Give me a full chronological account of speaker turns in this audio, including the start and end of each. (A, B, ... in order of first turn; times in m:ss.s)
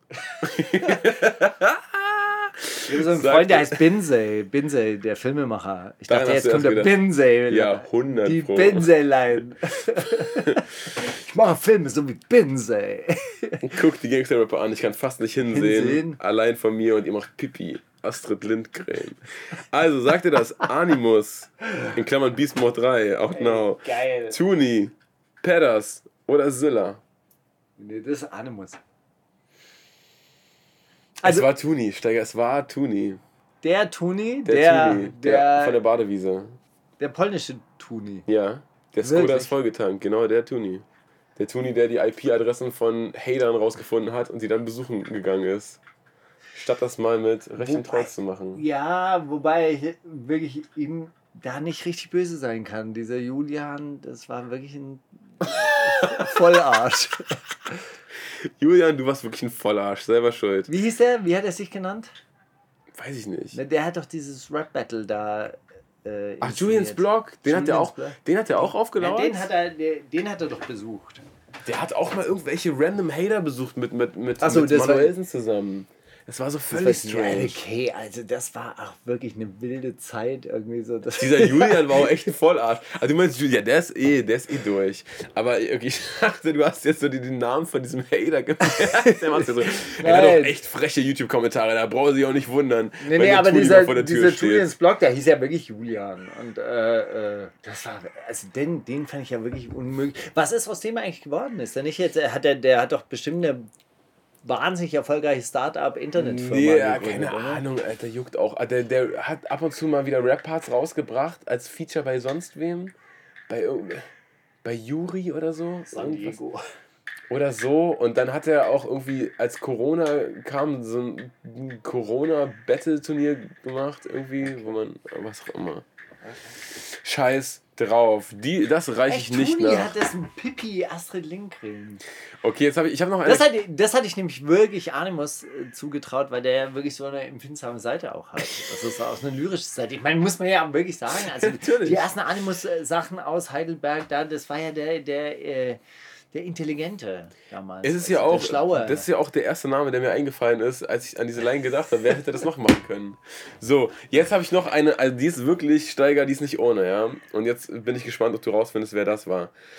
0:00.4-0:03.9 A
0:02.8-0:13.7 B
0:06.1-0:08.9 A
0:10.0-0:10.6 A
0:13.6-0:27.0 A
0:15.5-0:16.2 B
0:23.3-0:24.4 B
0:27.8-0:28.8 B
0:31.2-0:33.2 A
0:33.6-0:35.8 B
0:34.4-0:36.6 A
0:37.0-0:38.3 B
0:38.3-0:40.8 A
0:39.0-0:39.5 B
0:41.4-0:45.8 A
0:46.5-0:48.6 A
0:47.6-0:57.8 B
0:55.5-0:56.4 A
0:58.3-1:00.7 A
1:00.7-1:02.1 B
1:02.9-1:03.6 A
1:03.5-1:11.2 B
1:06.4-1:09.5 A
1:11.6-1:17.6 A
1:14.4-1:15.1 B
1:16.7-1:22.0 B
1:21.1-1:34.7 A
1:28.7-1:30.6 B
1:33.0-1:43.7 B
1:44.4-1:47.6 B
1:46.2-1:52.9 A
1:53.5-1:54.1 A
1:54.6-1:56.4 A
1:55.9-1:56.6 B
1:57.3-2:05.8 A
2:06.9-2:09.9 A
2:09.1-2:12.0 B
2:12.4-2:13.5 A
2:13.2-2:25.8 B
2:21.2-2:22.1 A
2:26.3-2:29.0 B
2:27.8-2:39.5 A